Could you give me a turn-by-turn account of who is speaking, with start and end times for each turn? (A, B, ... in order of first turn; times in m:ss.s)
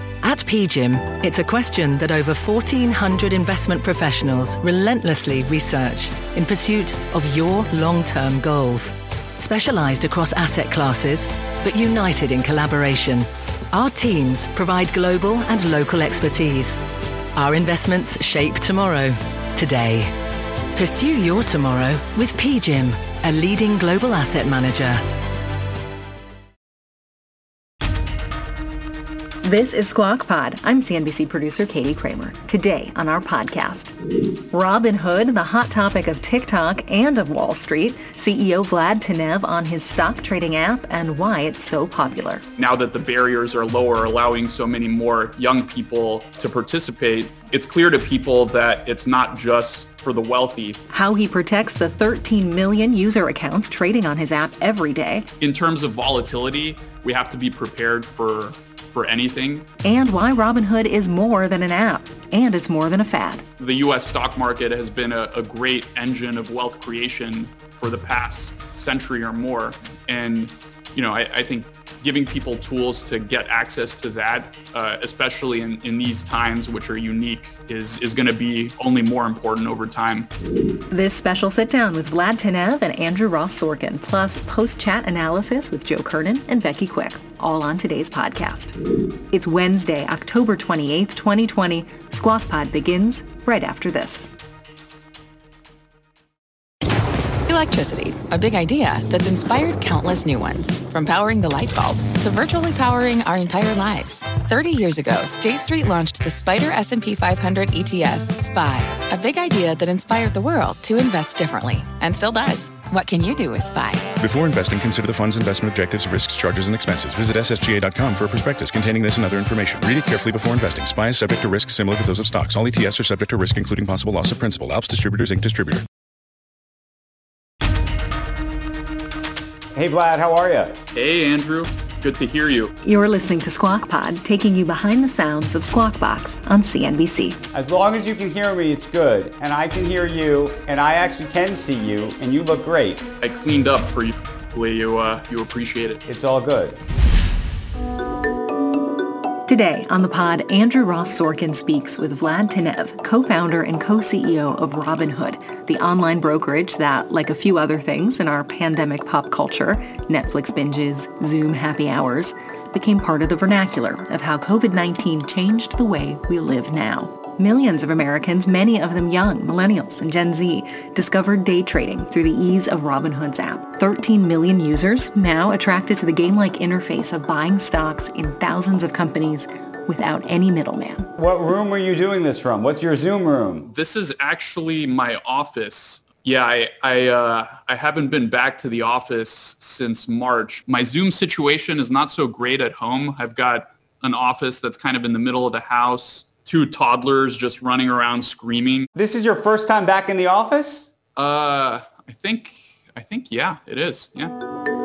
0:00.2-0:16.8 A
0:17.4-0:20.1 A
0:20.8-0:25.0 A
0:29.4-0:34.0 B
0:34.5-0:42.4 B
0:42.6-0:50.8 C
0:50.9-0:55.3 B
0:55.4-0:59.7 C
0:59.8-1:03.4 B
1:03.6-1:20.3 C
1:20.9-1:28.8 B
1:29.3-1:34.3 B
1:37.5-1:54.1 D
1:54.2-2:05.8 E
2:09.7-2:10.8 F
2:10.9-2:12.7 C
2:12.8-2:17.4 B
2:17.5-2:23.0 F
2:23.2-2:26.0 C
2:26.1-2:26.8 F
2:29.5-3:01.1 B
3:01.2-3:03.7 F
3:03.7-3:18.9 C
3:19.0-3:20.9 F
3:21.2-3:24.3 C